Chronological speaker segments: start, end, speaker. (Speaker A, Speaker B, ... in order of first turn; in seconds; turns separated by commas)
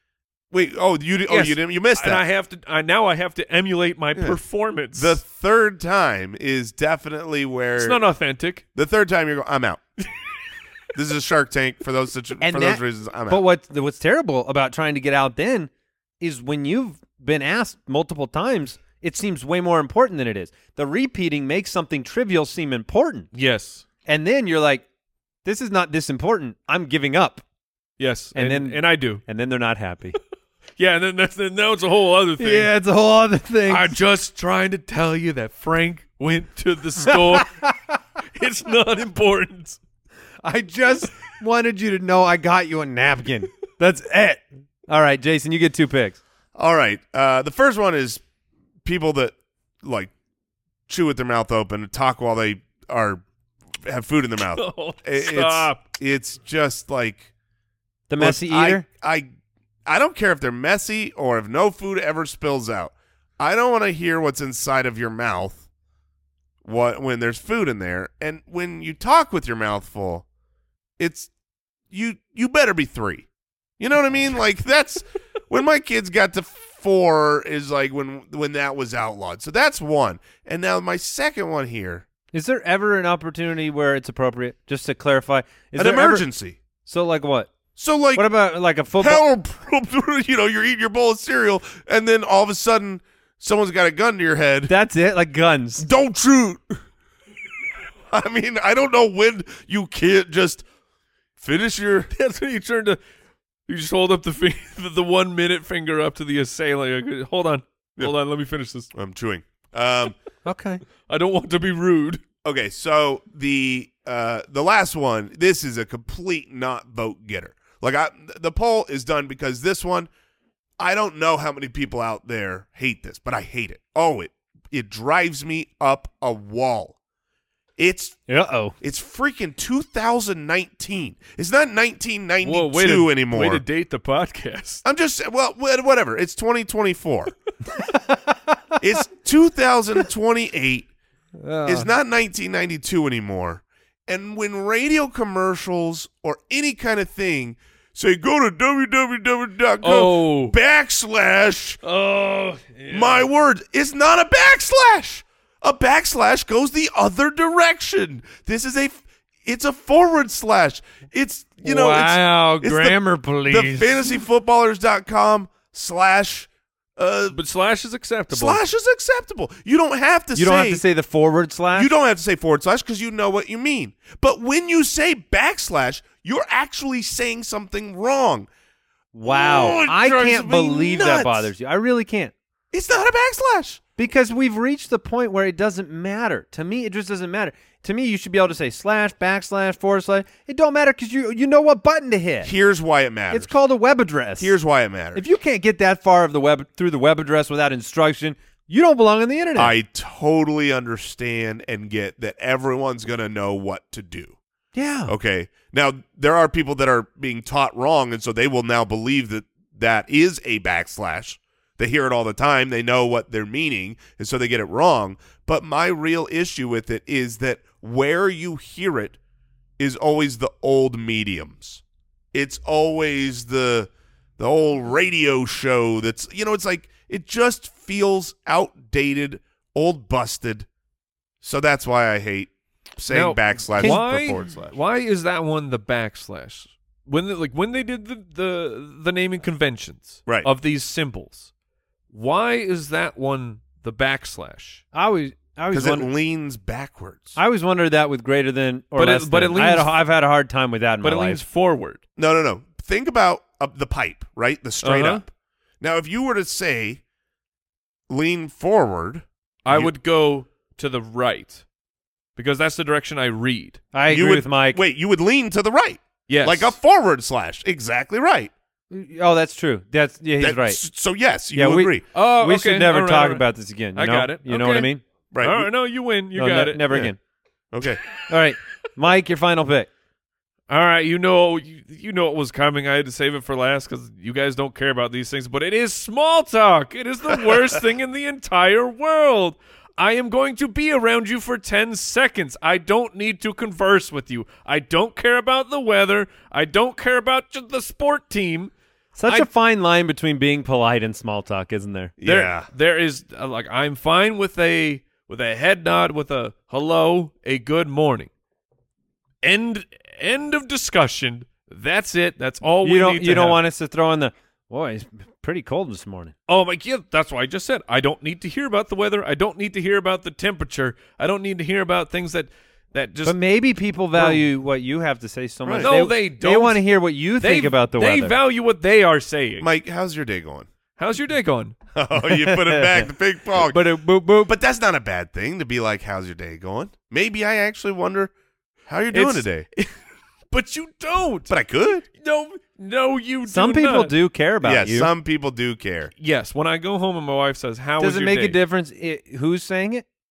Speaker A: 0.5-2.2, Speaker B: 1.3-5.2, Speaker A: 4.1-4.4, Speaker A: 4.9-8.0, Speaker B: 7.8-8.6, Speaker A: 8.7-9.8, Speaker A: 10.9-13.4, Speaker C: 12.4-15.7, Speaker C: 16.2-23.3, Speaker B: 23.3-23.8, Speaker C: 24.1-24.8, Speaker C: 25.4-27.4, Speaker B: 28.0-29.2, Speaker C: 28.3-30.2, Speaker B: 30.8-32.7, Speaker C: 32.4-33.9, Speaker B: 33.7-37.7, Speaker C: 37.1-37.7, Speaker B: 38.3-39.8, Speaker C: 40.4-46.2, Speaker A: 46.5-48.2, Speaker A: 48.8-50.1, Speaker A: 50.9-53.2, Speaker A: 53.8-57.3, Speaker B: 54.5-55.8, Speaker C: 58.1-58.8, Speaker A: 58.2-59.3, Speaker A: 59.9-65.6, Speaker A: 66.6-70.2, Speaker A: 71.0-71.3, Speaker A: 71.9-73.2, Speaker A: 73.8-82.0, Speaker C: 82.3-86.3, Speaker A: 85.8-86.6, Speaker C: 86.8-87.5, Speaker A: 87.8-88.3, Speaker C: 88.1-89.2, Speaker A: 89.0-94.7, Speaker C: 94.7-95.8, Speaker A: 95.8-96.8, Speaker A: 98.1-100.6, Speaker A: 101.4-102.1, Speaker B: 102.1-103.0, Speaker B: 103.7-108.9, Speaker A: 108.9-110.2, Speaker C: 110.4-110.8, Speaker B: 111.1-112.2, Speaker A: 112.4-120.1, Speaker A: 120.8-127.0, Speaker A: 127.8-128.2, Speaker C: 128.3-128.8, Speaker A: 128.8-133.6, Speaker B: 132.4-134.8, Speaker A: 134.8-137.3, Speaker C: 137.8-138.5, Speaker A: 138.8-140.9, Speaker C: 141.4-141.9, Speaker A: 141.6-151.8, Speaker B: 149.8-150.6, Speaker B: 151.8-153.3, Speaker A: 152.9-167.4, Speaker C: 161.6-164.1, Speaker B: 167.3-168.6, Speaker A: 168.3-170.8, Speaker C: 170.3-171.9, Speaker A: 171.7-178.5, Speaker C: 179.1-182.3, Speaker A: 179.2-181.5, Speaker A: 182.7-183.8, Speaker C: 184.0-192.5, Speaker A: 192.4-193.5, Speaker C: 193.3-194.6, Speaker A: 194.4-195.2, Speaker C: 195.1-199.8, Speaker A: 199.6-204.4, Speaker C: 204.7-205.1, Speaker A: 205.1-219.2, Speaker A: 219.8-221.8, Speaker A: 222.3-230.7, Speaker A: 231.4-234.7, Speaker B: 233.1-241.5, Speaker B: 242.1-244.8, Speaker C: 244.9-246.1, Speaker A: 245.7-247.4, Speaker C: 247.3-251.4, Speaker B: 248.9-250.0, Speaker B: 251.0-252.0, Speaker A: 252.2-255.3, Speaker B: 254.8-255.2, Speaker A: 255.8-257.0, Speaker A: 258.1-259.9, Speaker B: 259.6-261.6, Speaker B: 262.4-263.8, Speaker C: 263.9-264.8, Speaker A: 264.1-268.5, Speaker B: 266.3-266.8, Speaker C: 268.9-270.8, Speaker A: 270.4-272.0, Speaker C: 271.5-275.0, Speaker B: 272.1-274.9, Speaker A: 275.3-275.7, Speaker B: 275.4-277.0, Speaker C: 276.3-277.2, Speaker A: 277.7-278.0, Speaker C: 278.3-279.9, Speaker B: 280.7-298.7, Speaker C: 299.1-302.1, Speaker A: 302.2-302.7, Speaker B: 302.2-308.3, Speaker B: 309.4-313.6, Speaker C: 312.8-316.3, Speaker B: 316.5-323.4, Speaker C: 323.2-328.4, Speaker B: 324.1-324.4, Speaker A: 325.6-325.9, Speaker B: 325.8-329.7, Speaker A: 329.6-330.7, Speaker B: 331.0-331.8, Speaker A: 331.9-338.3, Speaker C: 332.2-334.5, Speaker A: 338.9-339.6, Speaker B: 339.1-339.9, Speaker B: 340.5-341.5, Speaker A: 341.5-342.1, Speaker B: 342.1-344.1, Speaker C: 343.5-345.1, Speaker A: 344.6-346.1, Speaker B: 346.2-348.6, Speaker C: 348.0-350.0